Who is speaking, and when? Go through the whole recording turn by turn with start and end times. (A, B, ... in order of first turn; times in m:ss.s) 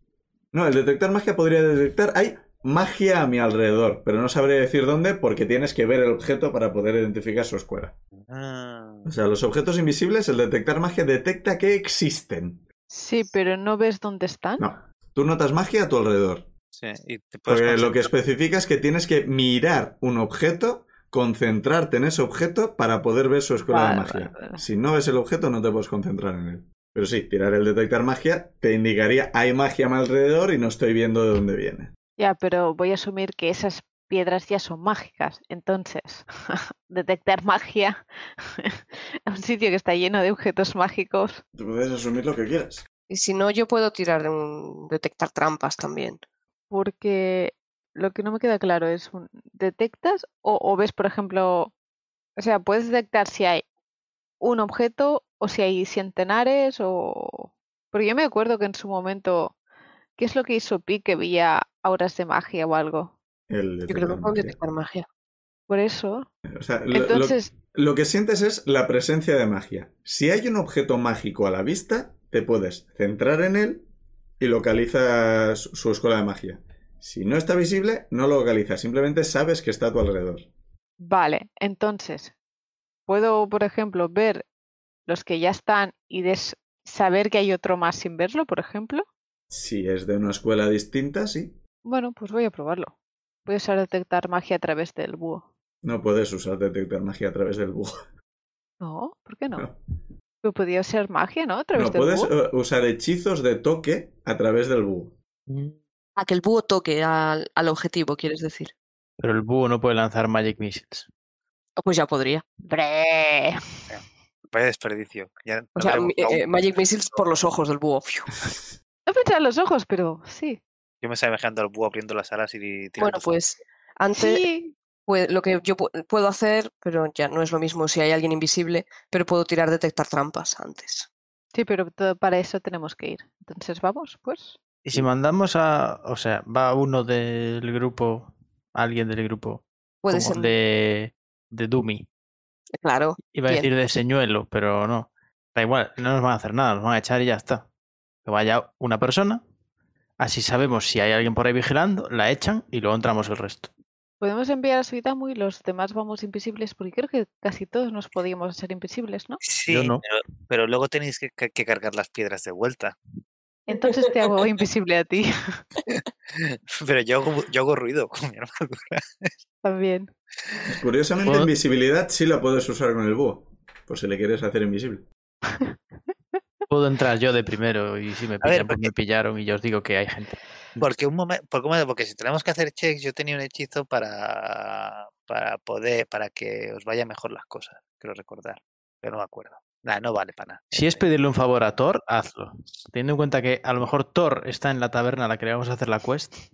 0:00.5-0:07.9 A
0:08.2-0:09.1 B
0:09.0-0:12.6 A
0:12.9-0:14.7 C
0:14.6-0:16.5 A
0:16.7-0:18.1 B
0:17.5-0:31.9 A
0:23.7-0:24.6 C
0:32.2-0:38.0 C
0:38.6-0:41.4 C
0:41.5-0:42.8 A
0:43.1-0:46.2 D
0:46.7-0:51.7 C
0:52.4-0:53.6 C
0:54.4-0:59.5 C
1:00.2-1:03.1 C
1:03.5-1:04.6 A
1:03.9-1:05.1 D
1:05.7-1:06.3 C
1:06.5-1:13.8 A
1:06.9-1:07.5 C
1:14.4-1:20.5 A
1:21.0-1:22.3 C
1:23.1-1:24.4 C
1:25.1-1:29.0 C
1:29.5-1:31.6 A
1:31.8-1:32.9 C
1:33.4-1:35.4 C
1:35.8-1:38.0 A
1:38.8-1:39.7 C
1:40.4-1:42.3 C
1:41.7-1:45.2 A
1:45.5-1:45.8 E
1:46.2-1:48.7 D
1:49.2-1:51.1 E
1:51.8-1:52.4 D
1:52.6-1:53.6 C
1:53.9-1:57.2 B
1:55.8-1:58.4 D
1:59.1-2:00.6 C
2:01.0-2:03.3 B
2:03.0-2:04.5 D
2:04.1-2:04.7 C
2:05.0-2:11.1 D
2:11.5-2:14.6 C
2:14.8-2:22.0 E
2:20.0-2:20.6 D
2:22.8-2:23.7 D
2:23.2-2:27.7 E
2:28.2-2:29.4 E
2:30.2-2:33.7 E
2:34.2-2:39.4 C
2:39.4-2:43.0 B
2:39.7-2:40.0 E
2:43.6-2:45.6 C
2:46.3-2:49.3 B
2:49.6-2:50.1 C
2:50.7-2:55.0 A
2:51.2-2:51.5 E
2:56.7-3:00.4 E
2:58.4-2:58.9 B
3:00.8-3:11.0 B
3:10.7-3:16.4 E